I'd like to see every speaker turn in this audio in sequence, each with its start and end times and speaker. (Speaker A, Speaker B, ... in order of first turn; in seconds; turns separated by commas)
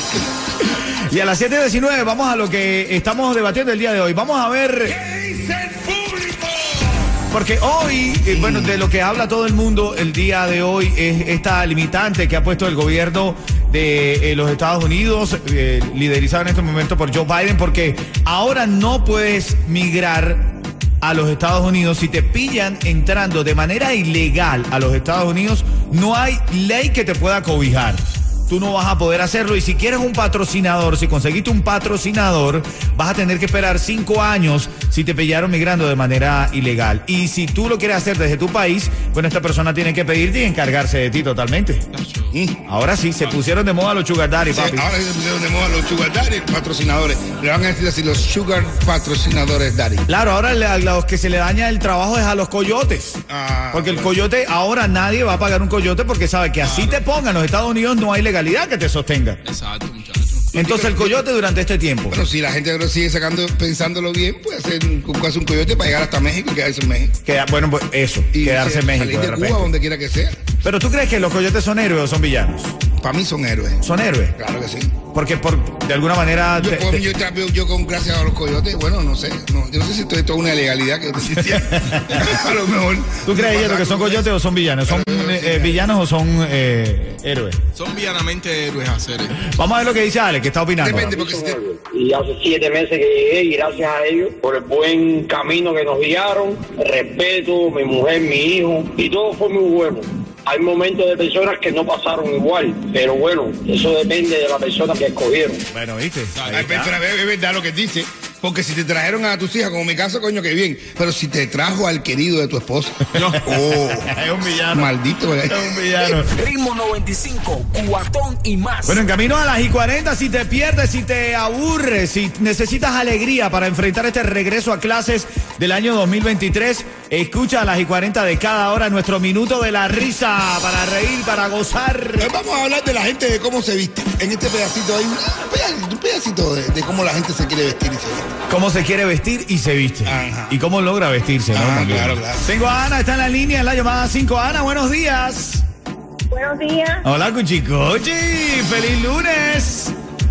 Speaker A: 0.6-5.0, Speaker B: 5.0-7.0, Speaker A: 7.3-41.8, Speaker B: 8.3-8.8, Speaker C: 41.9-42.3, Speaker B: 42.3-42.6, Speaker A: 42.7-44.9, Speaker B: 44.5-50.1, Speaker A: 50.1-53.2, Speaker B: 53.3-54.1, Speaker A: 53.7-59.4, Speaker C: 56.6-57.0, Speaker C: 59.4-60.5, Speaker B: 60.5-61.2, Speaker A: 60.5-62.2, Speaker B: 62.1-67.1, Speaker A: 67.2-69.7, Speaker B: 68.3-70.4, Speaker A: 70.6-72.7, Speaker B: 73.0-73.8, Speaker A: 73.8-74.3, Speaker B: 74.4-74.9, Speaker A: 75.1-77.0, Speaker B: 76.6-84.3, Speaker A: 81.5-82.3, Speaker A: 83.2-87.6, Speaker B: 84.8-85.8, Speaker C: 87.7-89.4, Speaker A: 89.4-91.2, Speaker B: 90.8-91.6, Speaker D: 91.0-105.6, Speaker A: 105.7-107.0, Speaker C: 106.3-106.7, Speaker B: 106.5-114.1, Speaker C: 113.1-113.4, Speaker A: 114.0-114.9, Speaker B: 114.7-116.1, Speaker A: 115.5-116.3, Speaker E: 116.3-119.0, Speaker A: 118.8-132.3, Speaker B: 132.2-138.3, Speaker A: 138.5-145.6, Speaker B: 140.0-140.6, Speaker B: 141.5-142.5, Speaker D: 146.3-147.0, Speaker A: 147.0-149.9